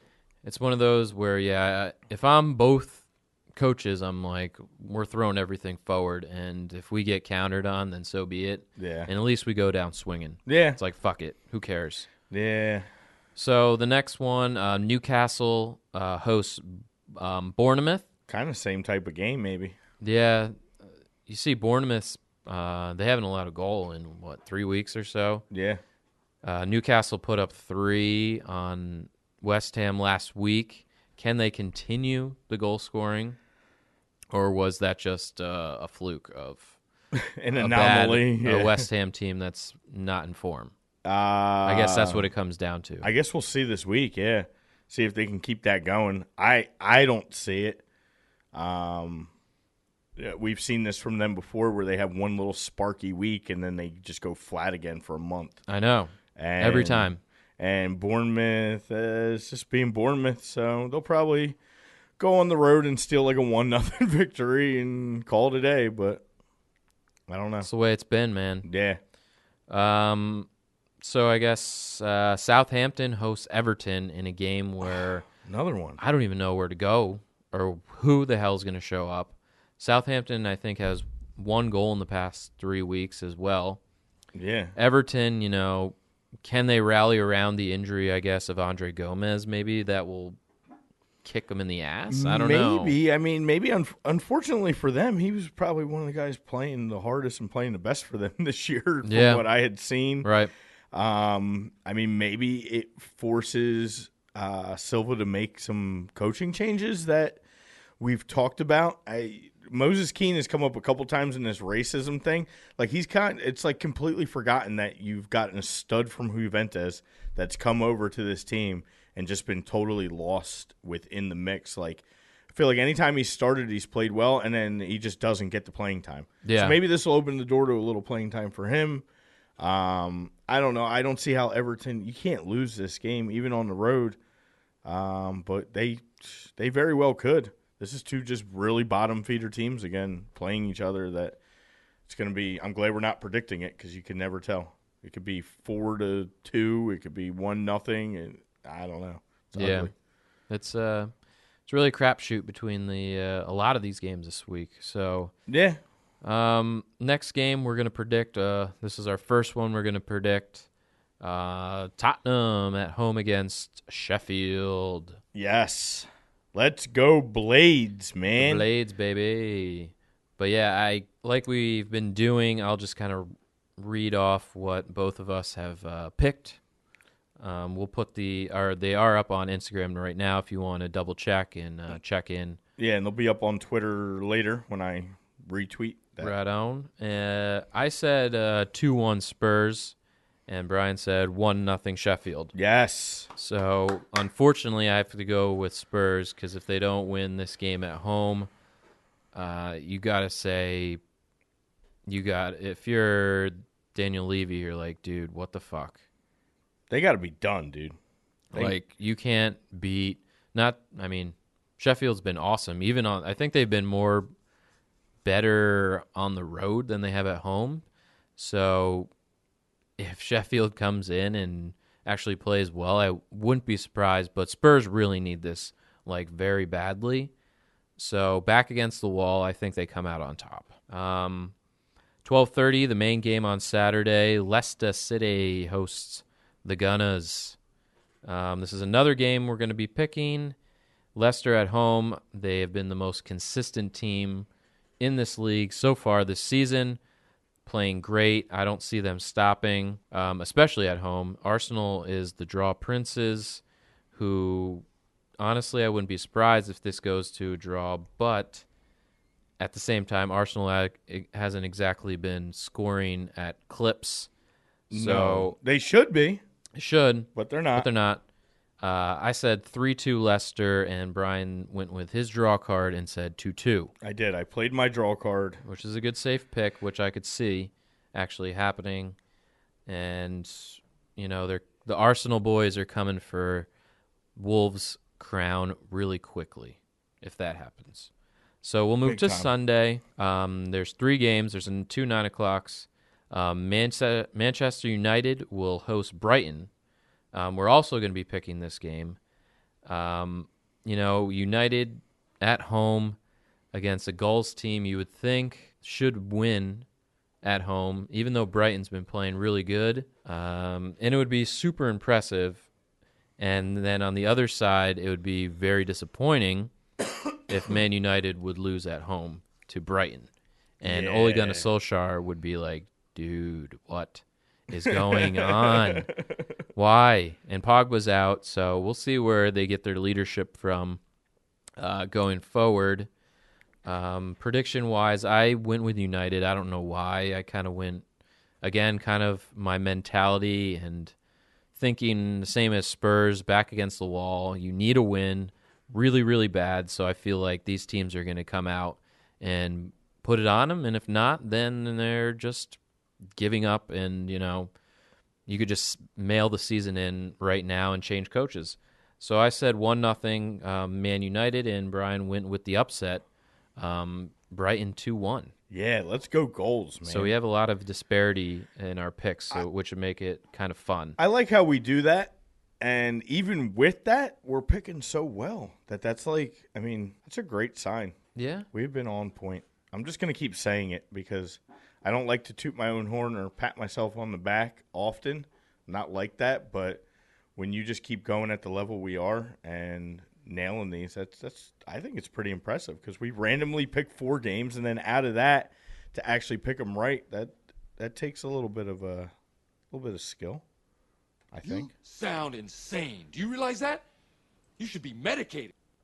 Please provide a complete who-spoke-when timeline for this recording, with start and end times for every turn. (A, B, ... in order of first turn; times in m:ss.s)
0:00.4-0:03.0 A
0:03.6-0:12.1 A
0:08.8-0:09.1 B
0:10.5-0:10.8 B
0:12.3-0:12.9 B
0:13.4-0:18.1 A
0:18.3-0:19.8 B
0:20.0-0:25.4 A
0:25.5-0:25.8 B
0:26.4-0:33.4 A
0:34.3-0:36.8 A
0:37.1-0:38.9 B
0:37.6-0:40.7 A
0:41.0-0:42.3 B
0:41.6-0:43.1 A
0:43.0-0:47.8 B
0:48.5-0:49.3 B
0:50.2-0:55.6 B
0:55.7-0:57.2 A
0:56.4-1:01.6 B
1:02.2-1:06.2 B
1:07.3-1:07.7 B
1:07.6-1:08.7 A
1:08.6-1:09.0 B
1:09.7-1:10.5 A
1:11.0-1:15.3 A
1:15.4-1:16.0 B
1:16.0-1:23.8 A
1:24.3-1:24.8 B
1:24.8-1:30.4 A
1:31.2-1:33.0 A
1:32.1-1:40.3 B
1:39.0-1:39.4 A
1:40.2-1:40.5 A
1:40.9-1:47.4 B
1:48.0-2:09.1 B
2:06.4-2:06.8 A
2:09.6-2:14.2 B
2:14.8-2:21.4 B
2:22.1-2:29.9 B
2:29.6-2:29.9 A
2:30.5-2:31.1 A
2:31.7-2:35.3 A
2:35.5-2:35.8 B
2:36.2-2:40.7 A
2:41.2-2:45.2 A
2:45.3-2:48.6 B
2:48.4-2:56.6 A
2:57.4-3:02.6 A
3:02.8-3:06.3 B
3:06.2-3:10.0 A
3:10.5-3:12.6 A
3:12.5-3:13.3 B
3:13.4-3:18.5 A
3:19.3-3:21.0 A
3:22.1-3:26.0 A
3:26.9-3:28.0 B
3:28.5-3:34.3 A
3:35.2-3:37.8 A
3:38.4-3:39.1 A
3:40.0-3:47.3 A
3:48.0-3:51.5 A
3:52.2-3:57.6 A
3:58.2-4:00.6 A
4:01.2-4:04.5 A
4:05.0-4:07.0 A
4:07.7-4:13.6 A
4:14.1-4:14.8 A
4:15.4-4:18.6 A
4:19.6-4:24.3 A
4:24.9-4:25.5 A
4:24.9-4:26.4 B
4:26.8-4:28.2 A
4:27.4-4:27.9 B
4:28.8-4:33.9 A
4:34.0-4:35.6 B
4:35.6-4:39.2 A
4:39.9-4:43.7 A
4:44.4-4:48.1 A
4:48.6-4:56.7 A
4:49.0-4:49.5 B
4:57.3-4:59.2 A
4:59.8-5:03.2 A
5:03.7-5:06.9 A
5:07.4-5:12.7 A
5:13.4-5:16.7 A
5:17.5-5:26.1 A
5:20.8-5:21.7 B
5:24.8-5:26.5 B
5:26.8-5:31.0 A
5:31.8-5:33.1 A
5:33.8-5:38.0 A
5:38.6-5:41.1 A
5:41.8-5:52.8 A
5:53.4-5:54.7 A
5:55.5-6:03.2 A
6:03.8-6:05.5 A
6:05.7-6:07.3 B
6:07.0-6:11.2 A
6:11.2-6:18.2 B
6:18.4-6:18.7 A
6:18.7-6:27.0 B
6:27.6-6:39.3 B
6:39.9-6:40.6 B
6:41.5-6:41.9 B
6:41.7-6:44.0 C
6:44.8-6:45.7 C